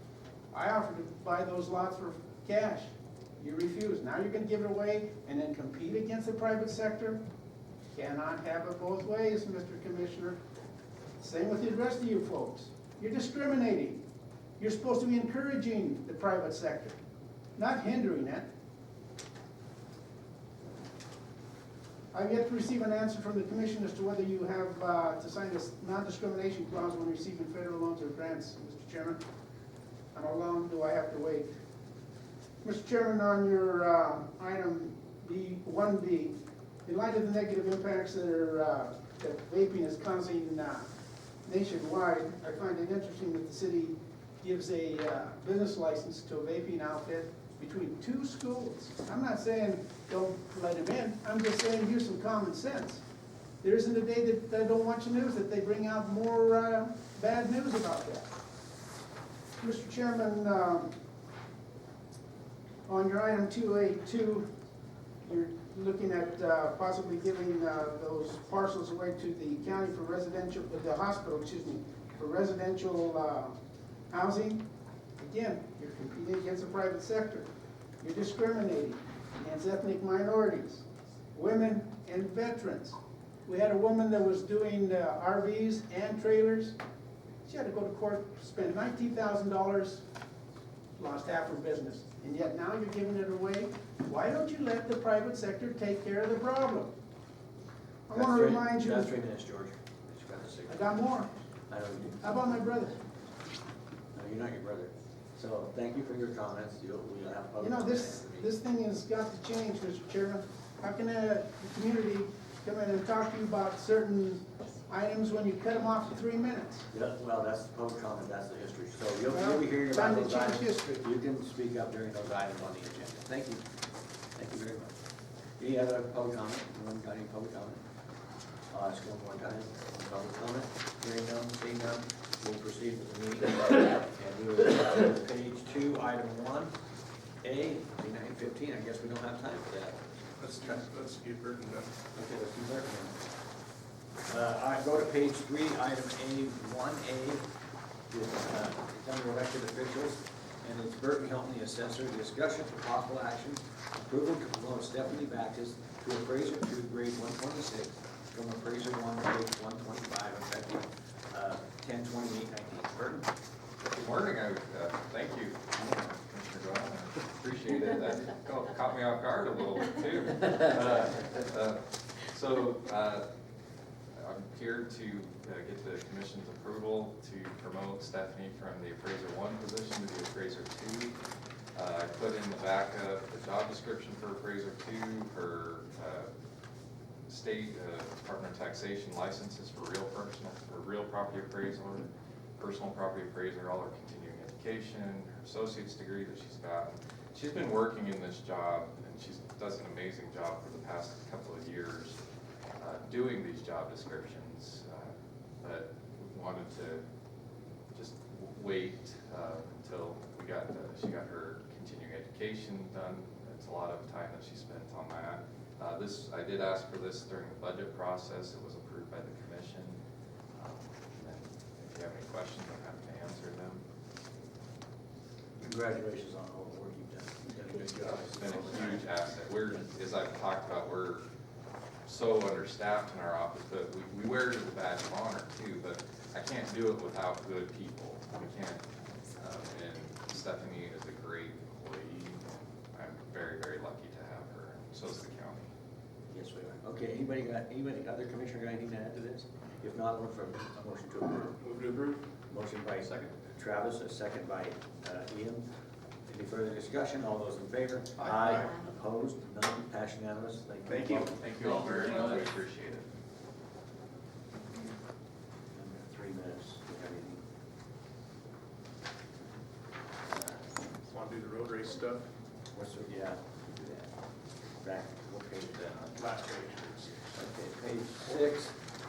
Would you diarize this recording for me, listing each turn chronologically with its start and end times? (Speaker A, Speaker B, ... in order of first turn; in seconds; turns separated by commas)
Speaker A: 0.5-7.2, Speaker A: 7.9-10.4, Speaker A: 11.2-14.0, Speaker A: 14.6-17.0, Speaker A: 17.6-18.5, Speaker A: 22.1-29.2, Speaker A: 30.1-31.5, Speaker A: 32.6-40.9, Speaker A: 41.5-53.0, Speaker A: 53.6-58.3, Speaker A: 59.6-60.9, Speaker A: 62.9-64.5, Speaker A: 65.2-73.5, Speaker A: 74.1-74.6, Speaker A: 75.2-77.5, Speaker A: 78.0-86.8, Speaker A: 87.5-90.0, Speaker A: 91.0-96.9, Speaker A: 98.1-99.1, Speaker B: 98.1-100.9, Speaker A: 100.7-101.3, Speaker B: 101.7-102.3, Speaker A: 102.2-103.0, Speaker B: 104.1-108.5, Speaker A: 107.6-116.9, Speaker B: 116.9-123.6, Speaker A: 119.3-121.1, Speaker B: 124.4-125.0, Speaker B: 125.6-127.8, Speaker B: 128.7-136.7, Speaker B: 137.4-140.0, Speaker C: 140.4-141.9, Speaker B: 142.1-143.2, Speaker B: 144.3-147.5, Speaker B: 148.1-163.3, Speaker D: 163.8-173.3, Speaker D: 174.2-181.2, Speaker D: 181.8-186.3, Speaker D: 187.3-202.2, Speaker D: 202.8-207.0, Speaker D: 207.9-220.0, Speaker D: 220.6-223.8, Speaker B: 225.6-229.1, Speaker D: 228.0-231.2, Speaker D: 232.1-238.8, Speaker D: 239.4-245.7, Speaker B: 246.3-251.6, Speaker C: 251.6-252.2, Speaker B: 252.5-255.7, Speaker B: 256.3-262.3, Speaker C: 258.2-258.6, Speaker C: 260.9-262.5, Speaker D: 261.4-263.1, Speaker B: 265.7-267.4, Speaker B: 270.3-270.7, Speaker C: 271.0-272.2, Speaker B: 272.7-274.1, Speaker B: 274.8-276.2, Speaker C: 276.1-277.3, Speaker B: 277.3-278.8